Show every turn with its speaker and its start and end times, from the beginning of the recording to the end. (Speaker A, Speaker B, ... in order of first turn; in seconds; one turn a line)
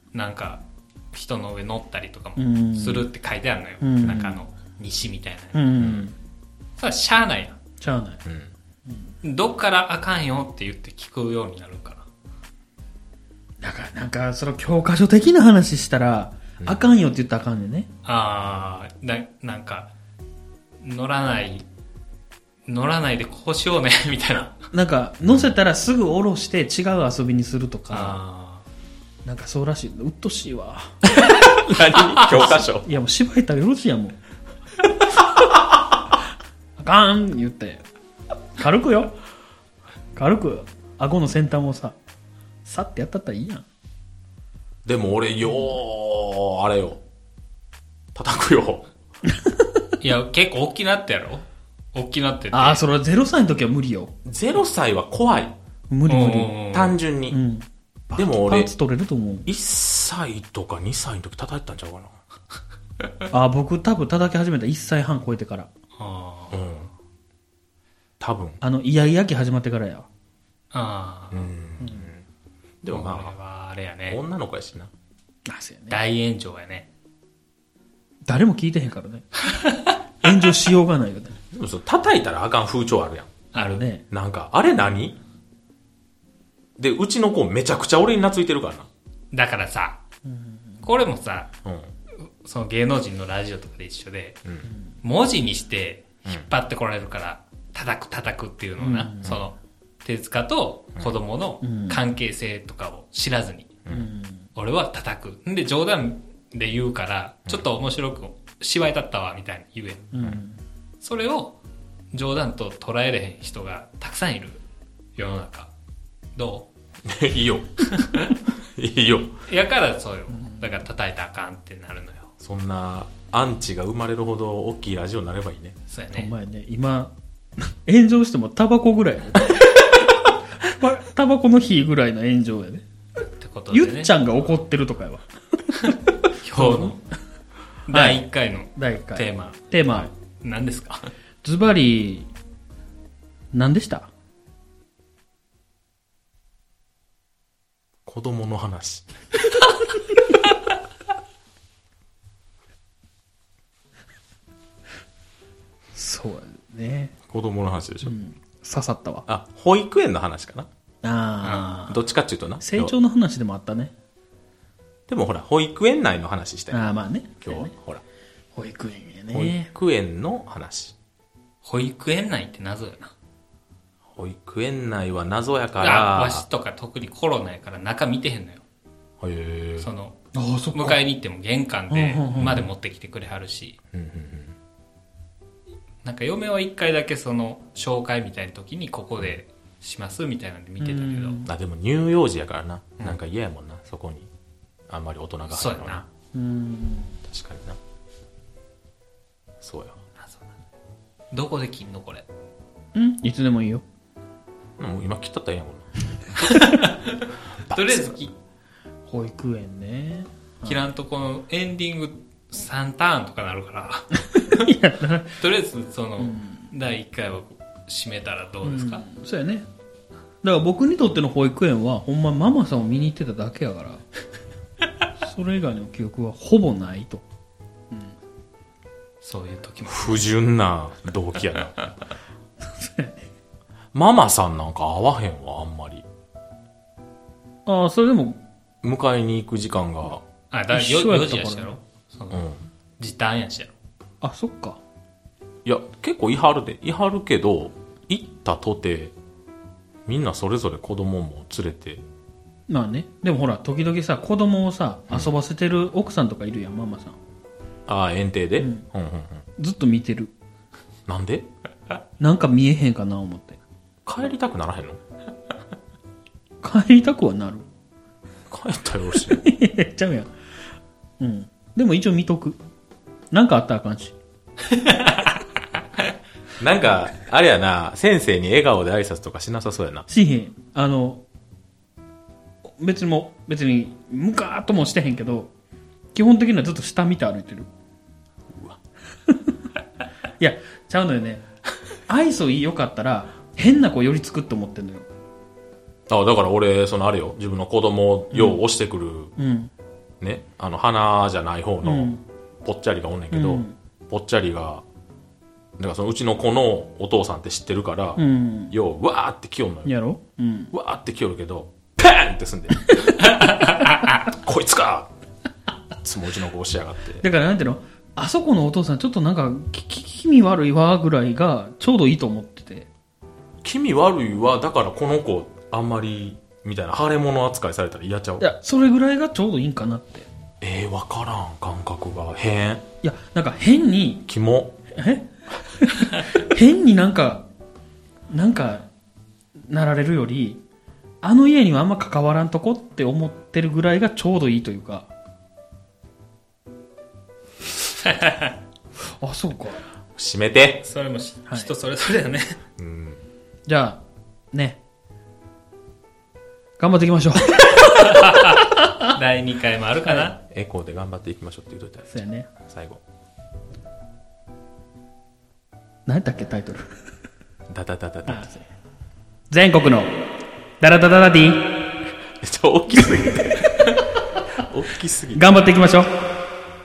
Speaker A: 0.1-5.8
Speaker B: 2.4-3.1
Speaker B: 3.8-4.4
Speaker B: 5.5-6.1
Speaker C: 5.8-6.0
Speaker A: 6.8-7.6
Speaker B: 7.8-8.2
Speaker C: 8.2-8.5
Speaker A: 9.2-12.1
Speaker B: 13.6-17.9
Speaker A: 18.1-19.9
Speaker A: 20.8-21.6
Speaker A: 22.7-24.7
Speaker B: 24.7-28.2
Speaker C: 25.2-25.6
Speaker A: 27.9-28.6
Speaker B: 29.2-30.9
Speaker C: 31.1-32.9
Speaker B: 32.4-34.2
Speaker B: 36.8-37.9
Speaker B: 38.6-39.2
Speaker B: 40.1-42.0
Speaker B: 42.6-43.6
Speaker C: 44.9-47.0
Speaker C: 48.1-48.9
Speaker B: 49.3-49.8
Speaker A: 50.0-52.8
Speaker B: 52.5-54.1
Speaker C: 54.2-55.6
Speaker B: 55.9-56.6
Speaker A: 56.1-57.0
Speaker C: 56.7-57.4
Speaker B: 57.3-59.5
Speaker C: 58.2-58.7
Speaker C: 59.5-62.2
Speaker B: 63.3-65.7
Speaker A: 66.0-66.6
Speaker C: 66.5-66.9
Speaker C: 68.2-68.6
Speaker B: 68.6-70.1
Speaker A: 70.7-71.5
Speaker C: 71.3-72.2
Speaker B: 71.8-72.1
Speaker C: 72.8-73.3
Speaker A: 72.9-74.2
Speaker C: 74.1-74.9
Speaker B: 75.5-76.0
Speaker A: 75.9-76.9
Speaker B: 78.3-79.3
Speaker B: 80.2-81.4
Speaker C: 81.5-83.5
Speaker A: 83.5-83.8
Speaker B: 83.6-84.0
Speaker C: 84.1-85.2
Speaker C: 86.8-88.9
Speaker A: 89.3-90.0
Speaker B: 90.3-90.8
Speaker A: 90.8-91.5
Speaker C: 91.7-91.9
Speaker A: 92.2-94.4
Speaker A: 95.0-103.8
Speaker B: 98.8-99.4
Speaker B: 101.6-102.0
Speaker B: 103.9-104.5
Speaker A: 104.5-110.1
Speaker B: 110.1-110.6
Speaker A: 111.0-111.6
Speaker A: 112.1-114.6
Speaker A: 115.2-115.7
Speaker A: 116.4-116.7
Speaker C: 117.0-119.4
Speaker A: 117.8-118.4
Speaker A: 119.5-122.3
Speaker B: 120.3-120.6
Speaker C: 122.4-125.8
Speaker A: 125.9-126.3
Speaker B: 126.1-129.7
Speaker B: 130.6-132.8
Speaker A: 133.3-134.2
Speaker B: 133.7-136.0
Speaker A: 136.4-137.0
Speaker B: 136.5-137.0
Speaker A: 137.9-141.1
Speaker B: 137.9-138.2
Speaker B: 138.8-140.1
Speaker B: 141.4-142.3
Speaker B: 143.5-144.1
Speaker C: 148.1-149.1
Speaker B: 155.9-157.1
Speaker C: 157.3-158.2
Speaker B: 158.0-159.3
Speaker C: 159.3-160.7
Speaker B: 161.0-162.0
Speaker A: 161.4-161.7
Speaker C: 161.9-162.9
Speaker B: 162.6-163.9
Speaker C: 165.1-166.8
Speaker B: 166.7-167.7
Speaker C: 167.4-168.0
Speaker B: 168.5-169.7
Speaker C: 169.3-171.0
Speaker A: 171.6-173.1
Speaker C: 174.1-176.5
Speaker A: 175.8-178.6
Speaker C: 179.2-179.9
Speaker A: 179.8-180.2
Speaker B: 180.3-181.0
Speaker A: 180.7-183.8
Speaker B: 181.9-182.7
Speaker C: 182.4-182.7
Speaker C: 183.9-184.6
Speaker A: 186.0-191.4
Speaker B: 190.8-191.5
Speaker C: 191.5-194.3
Speaker C: 194.9-196.0
Speaker A: 195.5-196.1
Speaker B: 196.3-197.2
Speaker C: 197.3-197.8
Speaker C: 199.6-200.0
Speaker A: 200.2-200.5
Speaker A: 201.3-202.3
Speaker B: 202.9-203.8
Speaker C: 204.8-205.9
Speaker A: 206.4-208.3
Speaker B: 206.6-206.8
Speaker C: 207.7-208.2
Speaker B: 209.1-210.9
Speaker A: 210.7-214.7
Speaker B: 214.3-215.4
Speaker A: 215.4-219.1
Speaker B: 216.2-216.7
Speaker B: 218.6-219.7
Speaker B: 220.4-224.0
Speaker B: 225.2-227.2
Speaker A: 229.2-230.3
Speaker C: 229.9-231.9
Speaker B: 232.6-233.2
Speaker C: 233.9-236.1
Speaker B: 237.7-238.4
Speaker C: 238.8-240.2
Speaker A: 240.5-242.5
Speaker B: 240.7-241.7
Speaker C: 242.3-242.6
Speaker A: 243.0-243.7
Speaker B: 244.2-244.8
Speaker C: 245.7-249.1
Speaker C: 250.1-252.0
Speaker B: 252.7-257.2
Speaker C: 257.9-259.4
Speaker B: 258.6-258.9
Speaker B: 259.6-260.3
Speaker C: 261.1-261.5
Speaker B: 262.2-263.6
Speaker C: 264.1-265.0
Speaker B: 266.6-267.7
Speaker C: 268.5-269.4
Speaker B: 269.4-270.3
Speaker B: 271.2-272.6
Speaker B: 273.3-274.1
Speaker A: 274.7-275.3
Speaker C: 276.6-280.1
Speaker B: 280.1-281.2
Speaker B: 282.8-285.5
Speaker B: 286.1-287.7
Speaker C: 288.5-288.8
Speaker B: 289.3-289.5
Speaker B: 290.4-291.4
Speaker B: 292.1-295.1
Speaker C: 296.1-299.3
Speaker B: 298.3-298.6
Speaker B: 299.4-299.7
Speaker C: 300.2-304.8
Speaker B: 301.8-302.2
Speaker B: 303.3-303.8
Speaker C: 305.8-309.9
Speaker B: 308.2-308.7
Speaker B: 309.9-310.7
Speaker C: 310.7-313.3
Speaker B: 312.9-313.4
Speaker C: 314.2-315.1
Speaker C: 316.0-317.2
Speaker B: 317.2-322.9
Speaker C: 323.6-328.5
Speaker B: 328.4-330.3
Speaker C: 330.6-332.9
Speaker B: 333.0-334.2
Speaker C: 334.3-334.8
Speaker B: 334.9-337.5
Speaker B: 338.3-338.9
Speaker B: 339.7-340.6
Speaker B: 341.2-345.1
Speaker A: 348.0-348.5
Speaker B: 349.2-349.8
Speaker C: 350.2-350.9
Speaker A: 350.8-352.6
Speaker C: 352.8-353.2
Speaker B: 353.7-354.8
Speaker B: 356.8-358.8
Speaker A: 358.1-360.4
Speaker C: 360.4-362.1
Speaker B: 362.1-362.5
Speaker C: 362.6-363.0
Speaker B: 366.1-366.9
Speaker C: 367.7-368.5
Speaker B: 368.3-368.6
Speaker B: 369.5-370.2
Speaker B: 370.8-371.8
Speaker C: 372.4-373.8
Speaker C: 374.6-375.5
Speaker B: 375.3-376.1